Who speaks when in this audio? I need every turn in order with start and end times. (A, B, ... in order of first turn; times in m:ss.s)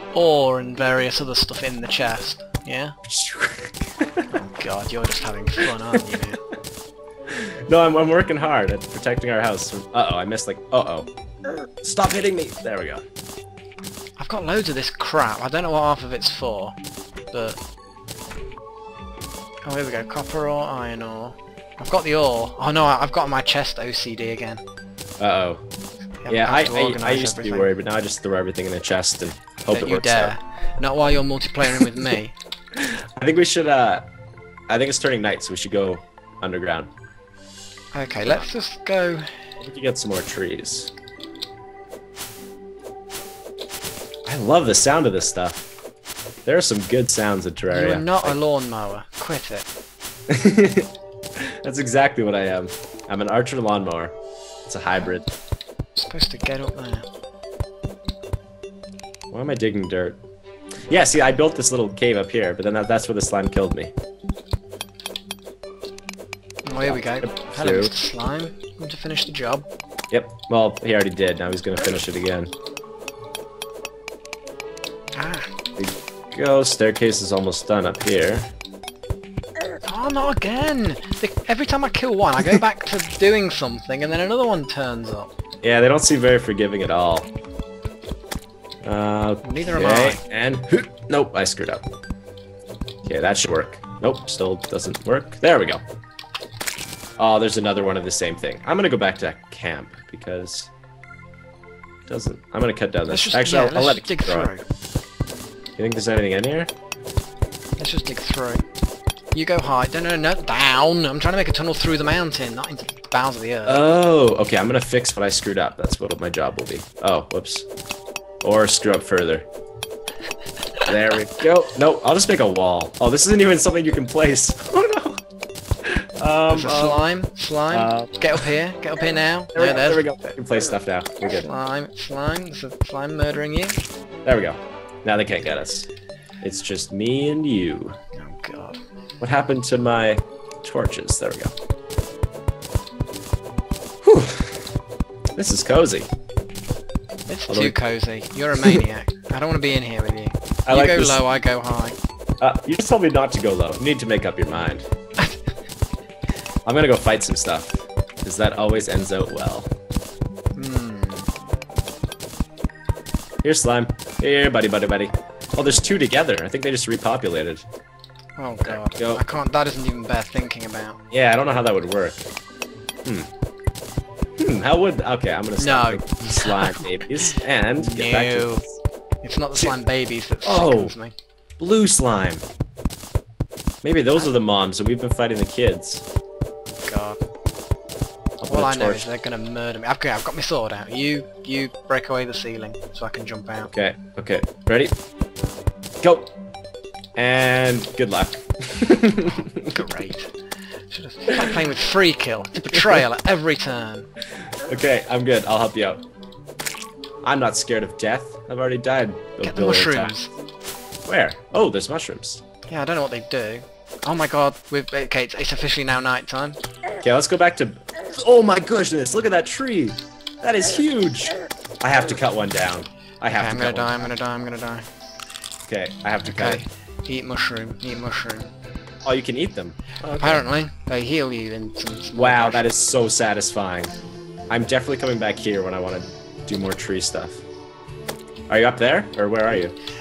0:00.1-0:03.0 A
0:03.1-0:04.4 B
0:04.3-0:06.4 A
0:07.3-0:11.1 B
0:11.8-0:13.0 B
0:14.2-0:16.8 A
0:17.3-0:17.6 A
0:19.6-0:24.6 A
0:25.2-0:25.6 B
0:26.2-0:27.7 A
0:26.3-0:30.4 B
0:29.7-0:32.4 A
0:32.8-0:34.1 B
0:34.7-0:36.9 B
0:37.9-0:39.3 A
0:39.6-0:40.9 B
0:44.3-0:45.7 B
0:46.4-0:48.4 B
0:47.7-0:49.7 A
0:50.3-0:55.3 B
0:56.0-0:57.1 A
0:59.3-1:00.2 B
1:00.9-1:03.9 B
1:06.6-1:09.7 A
1:06.8-1:07.9 B
1:10.1-1:12.5 B
1:15.1-1:15.5 A
1:15.8-1:18.5 B
1:19.8-1:25.3 A
1:25.6-1:27.3 B
1:28.8-1:31.8 B
1:29.4-1:30.2 A
1:33.0-1:35.8 B
1:37.2-1:40.7 B
1:42.1-1:44.5 B
1:43.1-1:44.6 A
1:45.8-1:46.7 B
1:47.8-1:48.6 A
1:49.3-1:53.9 A
1:53.7-1:57.7 B
1:58.4-1:59.5 B
2:00.9-2:05.2 B
2:05.8-2:07.1 B
2:06.5-2:10.3 A
2:07.7-2:08.4 B
2:09.6-2:11.5 B
2:11.3-2:13.8 A
2:14.2-2:15.9 B
2:16.4-2:18.0 B
2:18.2-2:18.8 A
2:19.2-2:21.5 B
2:24.0-2:24.7 B
2:25.4-2:26.1 B
2:27.3-2:32.0 A
2:27.5-2:27.8 B
2:30.7-2:31.2 B
2:32.4-2:34.9 B
2:36.6-2:39.7 B
2:40.6-2:41.3 A
2:43.4-2:47.6 B
2:48.4-2:51.0 A
2:48.7-2:49.2 B
2:51.1-2:52.3 B
2:53.0-2:53.3 B
2:54.4-2:58.7 B
2:55.6-2:58.6 A
2:59.2-3:01.1 A
3:00.4-3:01.0 B
3:01.6-3:02.4 B
3:03.8-3:06.0 B
3:06.8-3:07.2 A
3:08.4-3:09.0 B
3:08.5-3:13.7 A
3:13.7-3:15.0 B
3:16.0-3:16.3 B
3:17.2-3:20.0 B
3:19.6-3:20.3 A
3:20.9-3:24.1 A
3:22.7-3:23.0 B
3:24.6-3:26.0 B
3:27.2-3:30.1 B
3:29.4-3:30.3 A
3:31.1-3:32.4 B
3:32.7-3:36.6 A
3:37.0-3:44.1 B
3:43.3-3:44.9 A
3:45.7-3:46.6 B
3:46.3-3:48.5 A
3:49.1-3:50.4 B
3:50.2-3:52.8 A
3:52.2-3:53.9 B
3:54.5-3:57.4 B
3:58.5-3:59.8 B